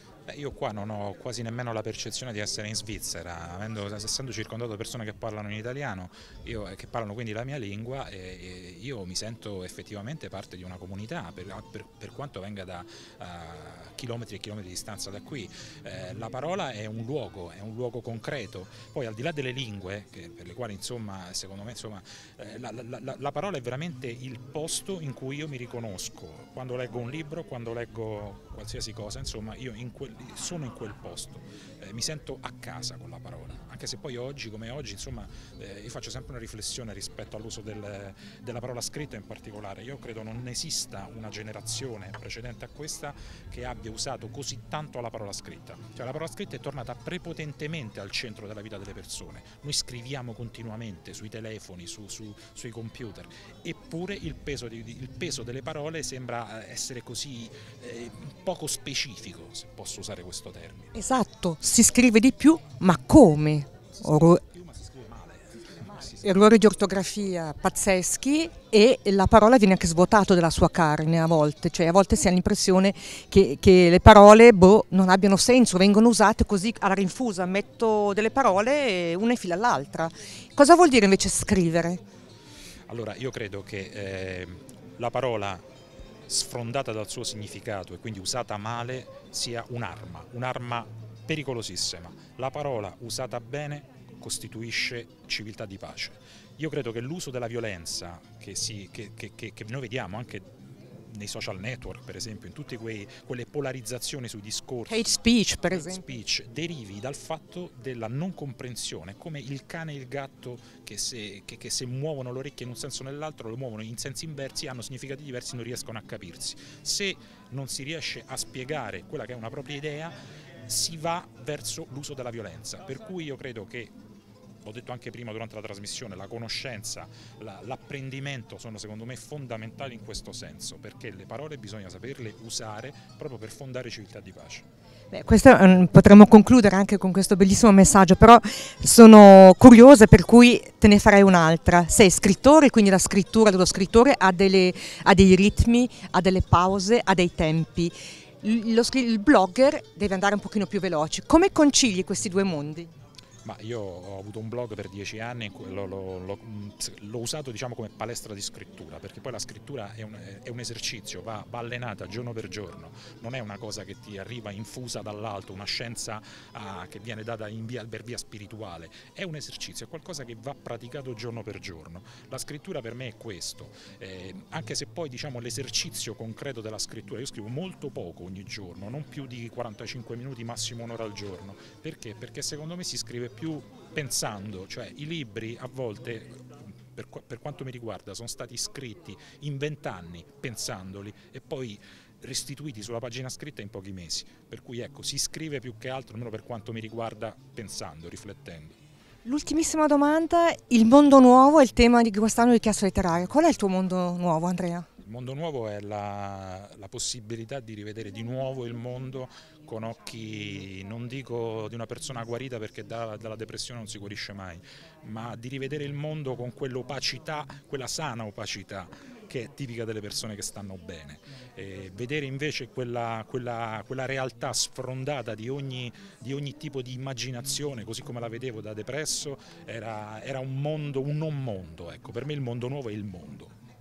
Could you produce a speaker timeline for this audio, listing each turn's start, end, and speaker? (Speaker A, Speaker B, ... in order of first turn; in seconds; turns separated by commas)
Speaker A: 0.3-60.9, Speaker B: 60.9-64.4, Speaker A: 64.0-66.3, Speaker B: 66.2-82.0, Speaker A: 82.9-85.6, Speaker A: 86.3-105.1, Speaker B: 104.9-106.0, Speaker A: 105.7-123.9, Speaker A: 124.6-134.6, Speaker B: 135.1-152.9, Speaker A: 153.4-198.8, Speaker B: 199.2-204.9, Speaker A: 205.0-233.5